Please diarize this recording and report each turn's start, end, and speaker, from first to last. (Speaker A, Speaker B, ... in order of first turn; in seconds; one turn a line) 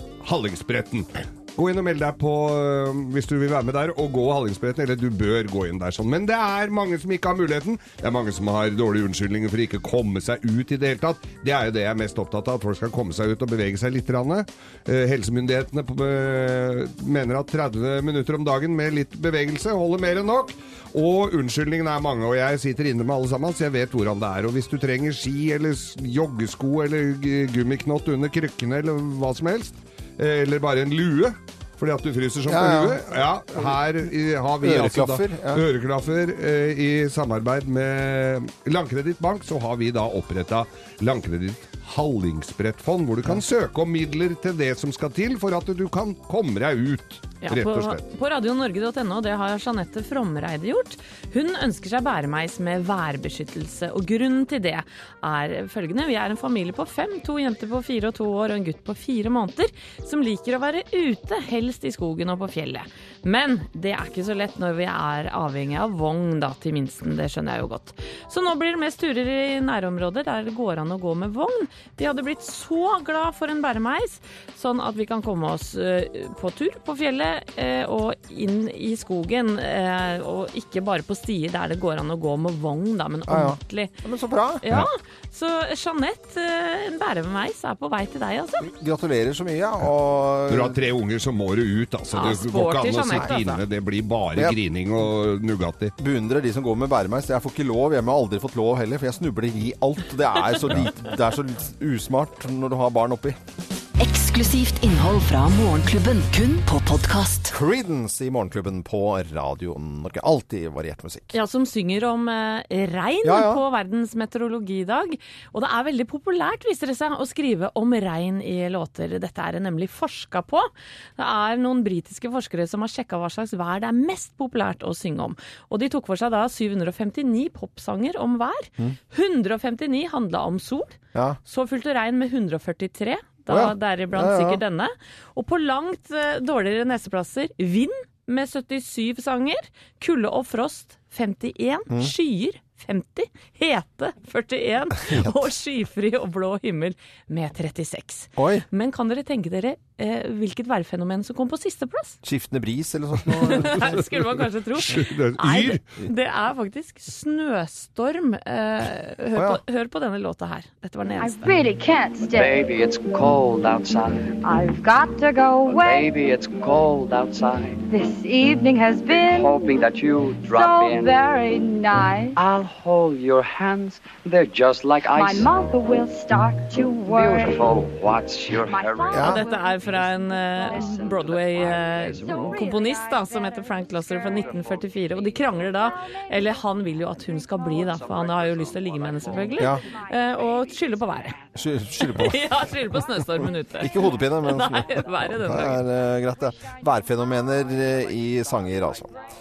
Speaker A: 0.2-48.0
Speaker B: 32.5-33.9
Speaker B: 34.6-35.6
Speaker C: 47.4-83.9
Speaker B: 83.3-84.6
Speaker C: 84.6-88.7
Speaker B: 88.6-90.8
Speaker A: 90.5-95.9
Speaker C: 92.1-93.6
Speaker B: 96.0-103.4
Speaker D: 104.0-107.5
Speaker B: 107.5-111.3
Speaker C: 111.3-152.2
Speaker B: 113.2-113.6
Speaker B: 131.1-131.4
Speaker B: 133.5-134.6
Speaker B: 148.3-148.7
Speaker B: 152.2-154.0
Speaker C: 153.4-161.4
Speaker A: 154.9-155.8
Speaker E: 161.2-162.6
Speaker F: 162.3-164.4
Speaker E: 164.4-166.1
Speaker F: 165.6-167.8
Speaker E: 167.9-169.8
Speaker F: 169.2-171.2
Speaker E: 170.4-172.4
Speaker F: 172.3-175.5
Speaker E: 175.0-177.8
Speaker F: 177.1-179.3
Speaker E: 178.5-184.6
Speaker B: 179.1-179.4
Speaker C: 179.1-191.4
Speaker F: 181.6-182.2
Speaker E: 187.5-187.8
Speaker F: 188.3-189.2
Speaker E: 189.4-190.4
Speaker B: 189.6-189.8
Speaker B: 191.5-192.6
Speaker C: 192.1-195.8
Speaker B: 193.4-199.1